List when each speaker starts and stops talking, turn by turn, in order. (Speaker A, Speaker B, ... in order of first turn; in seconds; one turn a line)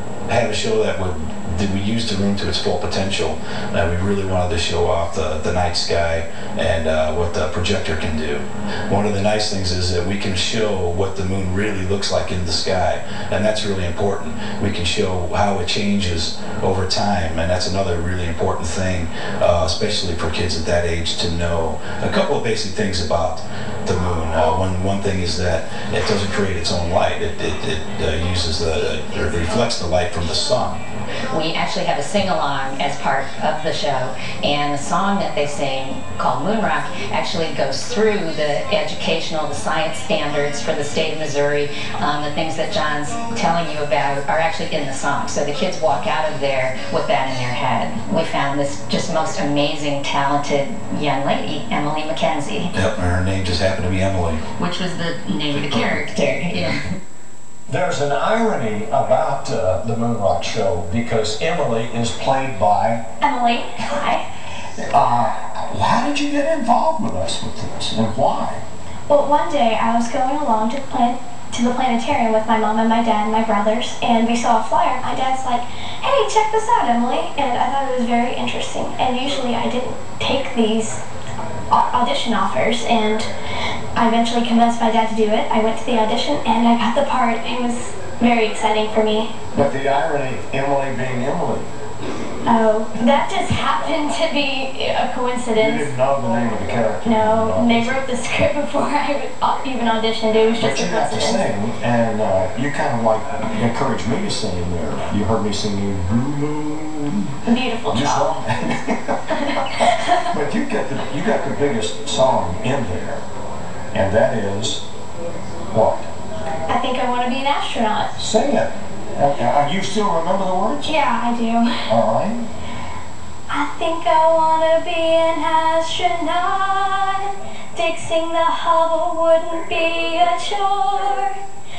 Speaker A: 0.3-30.8
Speaker B: 31.3-52.7
Speaker A: 52.7-54.4
Speaker B: 54.6-56.8
Speaker A: 55.6-56.0
Speaker C: 57.7-63.0
Speaker D: 63.2-64.3
Speaker C: 64.9-68.6
Speaker D: 69.1-81.0
Speaker D: 81.7-83.3
Speaker D: 84.0-89.3
Speaker C: 89.5-91.7
Speaker D: 92.5-95.9
Speaker C: 95.5-98.0
Speaker D: 97.0-101.4
Speaker C: 100.6-113.2
Speaker D: 107.5-108.3
Speaker D: 109.4-110.2
Speaker C: 113.9-114.8
Speaker C: 115.7-116.1
Speaker D: 116.7-118.1
Speaker C: 118.2-120.9
Speaker D: 120.8-121.9
Speaker C: 121.9-122.5
Speaker D: 123.5-131.3